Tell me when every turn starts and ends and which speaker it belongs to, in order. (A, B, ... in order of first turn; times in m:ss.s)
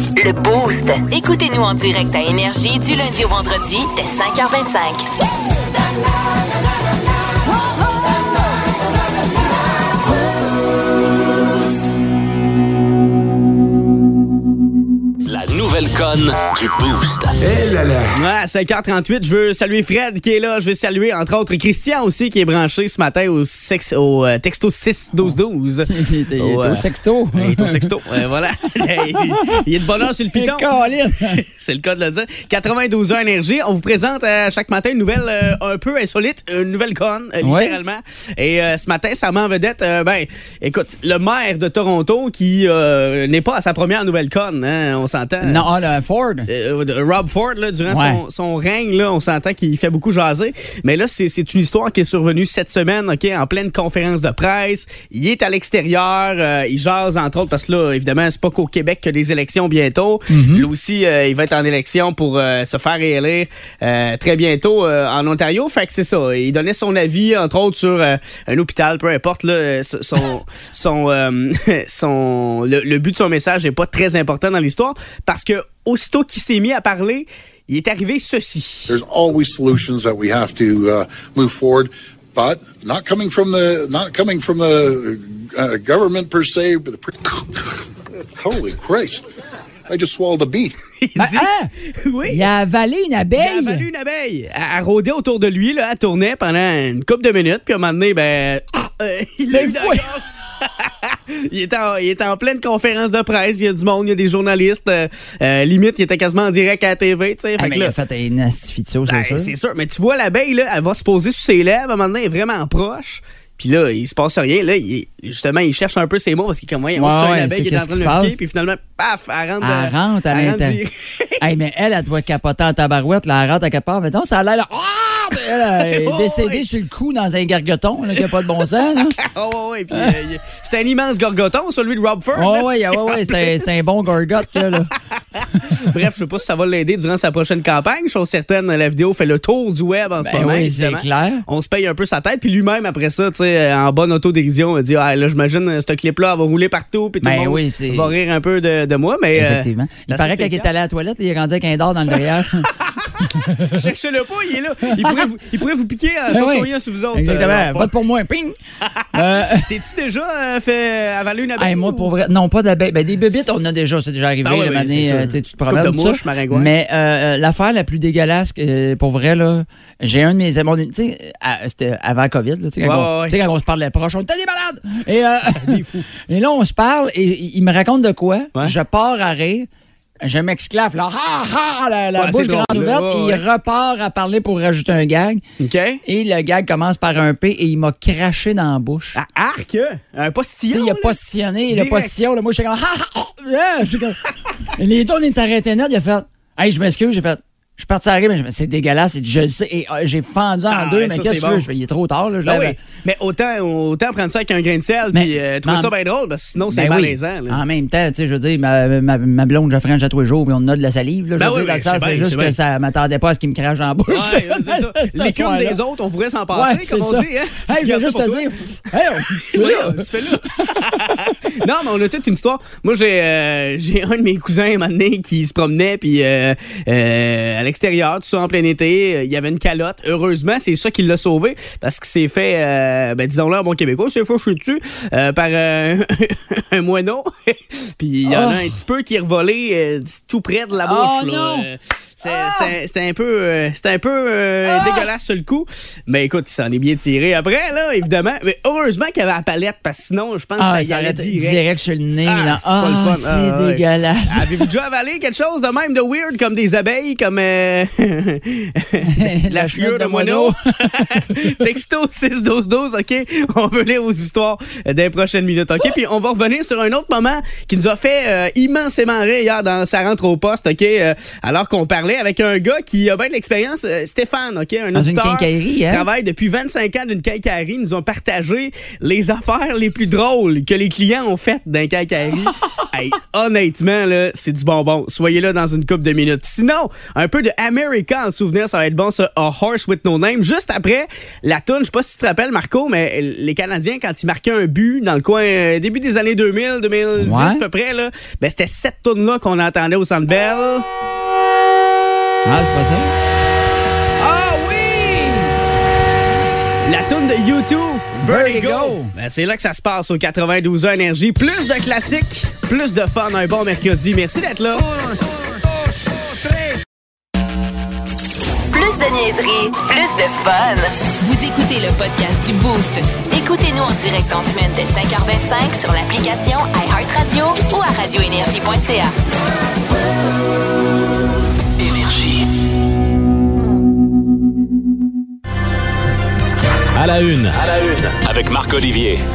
0:00.2-0:05.0 A
0:15.2-0:18.0 B
0:18.1-0:30.7 C
0:25.9-0:27.9 D
0:28.8-0:29.6 D
0:30.3-0:31.4 D
0:31.3-0:45.7 C
0:37.4-0:37.8 D
0:45.4-0:46.5 D
0:46.5-1:19.0 C
0:47.8-0:48.2 D
1:00.3-1:00.7 D
1:18.9-1:27.8 E
1:28.4-1:29.2 E
1:29.9-1:30.7 E
1:31.0-1:32.4 C
1:31.2-1:31.7 D
1:32.2-1:33.8 D
1:33.4-1:47.9 C
1:39.5-1:40.1 D
1:47.6-1:49.5 D
1:49.1-2:01.5 C
1:56.9-1:58.4 D
1:59.6-2:00.8 D
2:01.4-2:09.2 D
2:05.7-2:06.6 C
2:08.2-2:13.7 C
2:12.3-2:14.9 D
2:15.1-2:30.7 C
2:20.2-2:21.4 D
2:27.2-2:28.1 D
2:29.3-2:32.7 D
2:32.7-2:37.9 C
2:33.4-2:33.8 D
2:34.9-2:35.2 D
2:36.3-2:38.6 D
2:38.8-2:42.1 C
2:39.1-2:39.7 D
2:41.6-2:59.7 D
2:44.4-2:46.7 C
2:52.8-2:53.4 C
2:55.6-2:56.1 C
3:00.2-3:05.4 D
3:02.2-3:03.4 C
3:05.6-3:06.0 C
3:06.0-3:09.2 D
3:09.1-3:11.2 C
3:10.7-3:22.8 D
3:11.7-3:12.1 C
3:20.7-3:21.6 C
3:22.4-3:27.6 C
3:25.1-3:25.9 D
3:26.7-3:35.8 D
3:31.4-3:32.6 C
3:34.1-3:38.4 C
3:36.5-3:40.1 D
3:39.3-4:11.6 C
3:40.6-3:41.3 D
3:58.2-3:58.7 D
4:00.8-4:01.7 D
4:02.2-4:02.7 D
4:04.6-4:05.1 D
4:10.6-4:14.6 D
4:12.1-5:00.8 C
4:19.0-4:21.5 D
4:34.9-4:36.0 D
4:57.2-4:57.6 D
5:02.4-5:03.1 D
5:04.2-5:05.5 D
5:06.8-5:14.9 C
5:08.2-5:09.1 D
5:18.7-5:29.1 A
5:31.8-5:32.5 B
5:36.9-5:39.2 B